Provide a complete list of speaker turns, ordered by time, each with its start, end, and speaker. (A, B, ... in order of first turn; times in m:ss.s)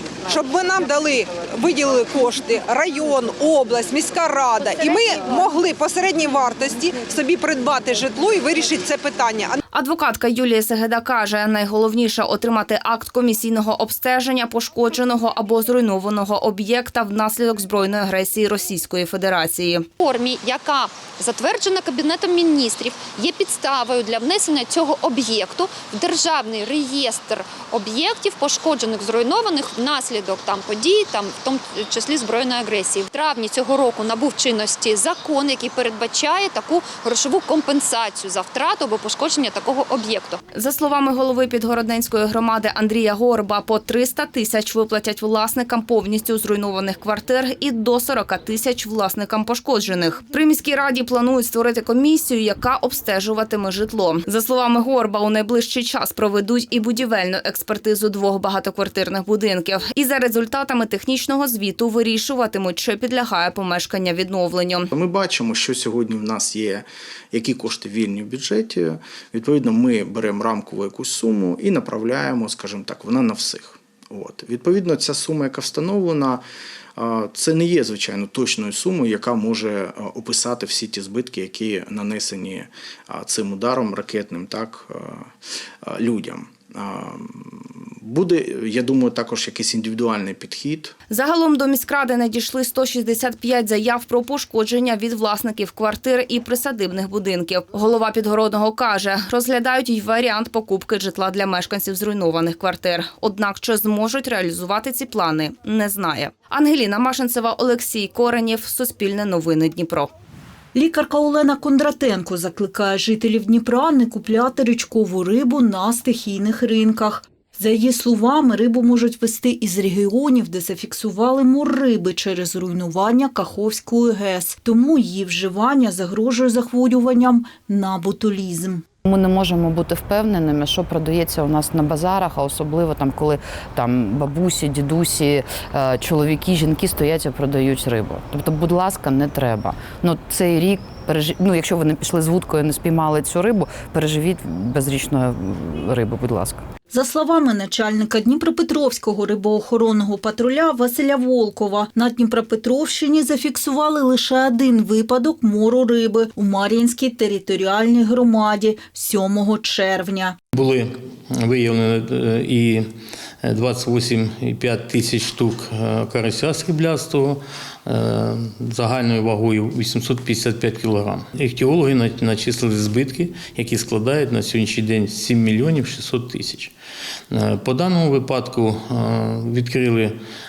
0:00.3-0:09.5 A
0:09.7-0:19.9 B
0:20.0-0:40.3 C
0:40.5-1:04.9 B
1:04.9-1:16.4 D
1:17.0-1:25.3 D
1:25.8-1:30.9 D
1:31.1-1:50.1 B
1:50.7-2:08.8 E
2:09.1-2:26.6 F
2:26.9-2:40.4 E
2:40.5-2:42.8 G
2:43.4-2:56.7 G
2:57.3-3:00.2 G